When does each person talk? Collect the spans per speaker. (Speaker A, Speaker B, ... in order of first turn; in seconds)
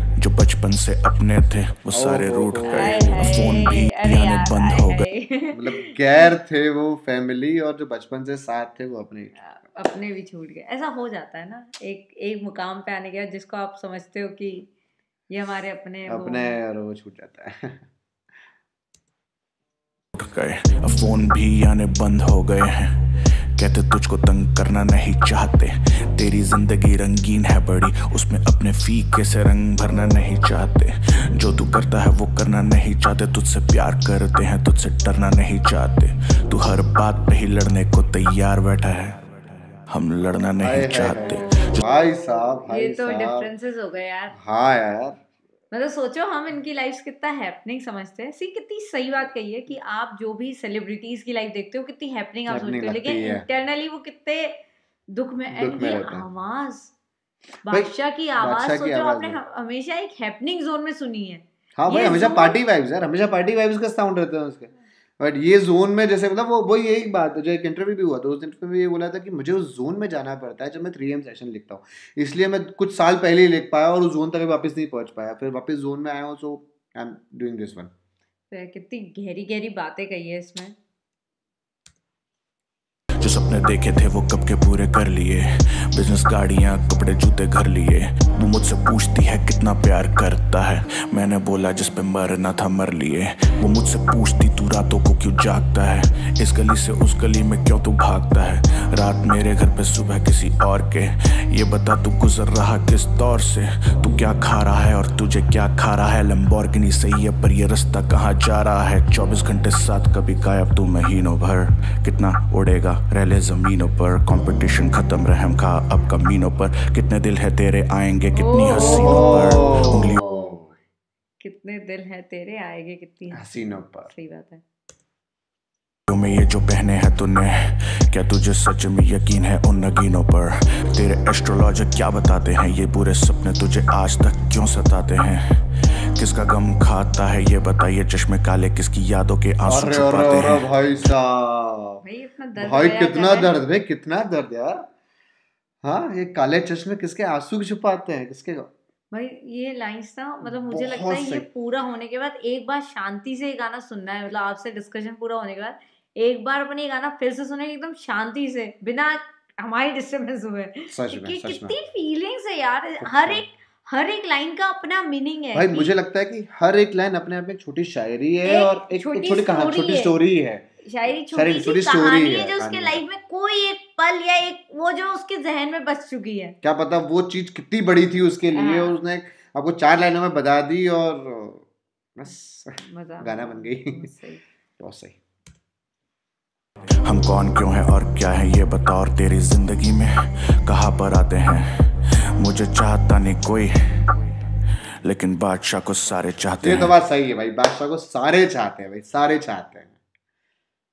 Speaker A: 0.2-5.1, 20.2-22.9, 23.6-39.2, 39.9-41.8, 83.2-120.2, 126.1-140.7, 187.0-193.7, 195.0-196.9
Speaker B: 2.0-2.7, 5.5-9.4, 16.1-17.9, 40.6-43.5, 44.3-45.2, 52.5-53.4, 55.5-56.3, 57.7-59.3, 61.8-77.9, 118.9-120.7, 123.3-124.1, 139.6-142.0, 142.6-144.8, 145.8-148.7, 150.6-151.4, 161.0-161.7, 163.0-163.3, 165.5-170.7, 171.3-173.0, 176.7-181.7, 182.2-184.1, 184.8-185.2, 196.6-200.0
Speaker C: 2.7-6.3, 9.4-14.7, 15.3-16.6, 41.1-44.3, 45.7-56.9, 57.6-62.6, 78.5-80.8, 118.3-120.6, 121.4-124.6, 142.0-143.5, 149.1-165.9, 168.4-170.1, 170.8-176.6, 178.5-179.0, 182.8-184.4